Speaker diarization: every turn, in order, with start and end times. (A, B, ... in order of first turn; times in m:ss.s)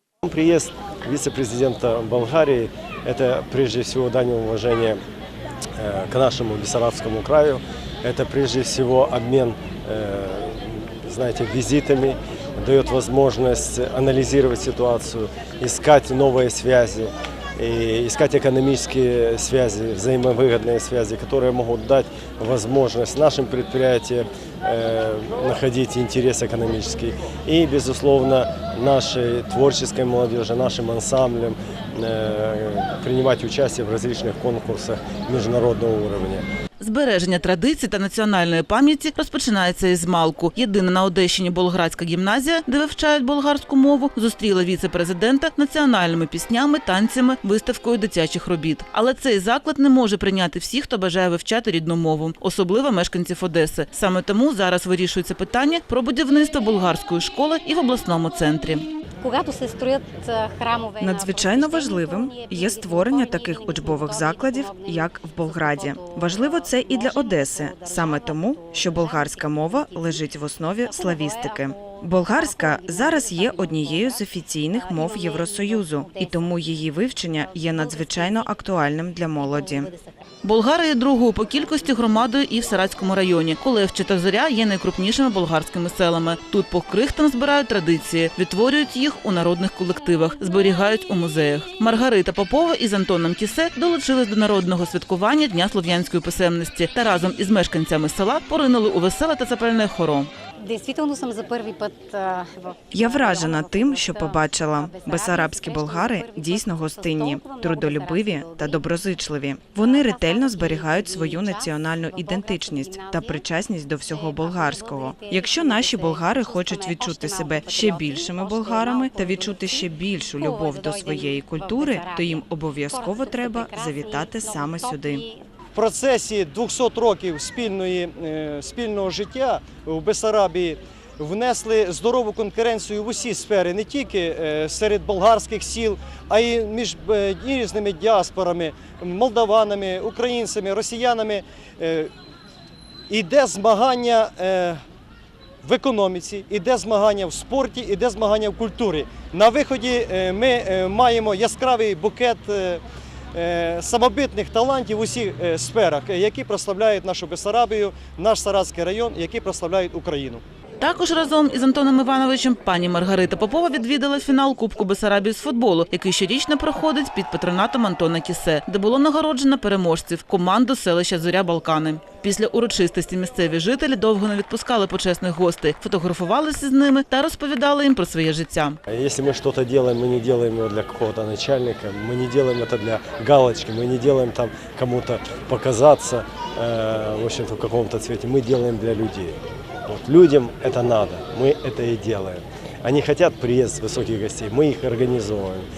0:00.2-0:05.0 A
0:05.8-0:36.4 A
0:36.8-0:58.8 B
0:59.2-1:16.6 C
1:01.0-1:19.9 D
1:17.4-1:18.8 C
1:19.4-1:20.1 C
1:20.4-1:40.3 B
1:40.6-1:49.0 C
1:42.9-2:05.2 D
1:49.8-1:53.4 C
1:54.0-2:05.4 C
2:05.7-2:22.1 E
2:23.1-2:24.8 E
2:25.6-2:32.8 E
2:33.3-2:40.4 E
2:40.8-2:58.8 B
2:58.9-3:15.7 A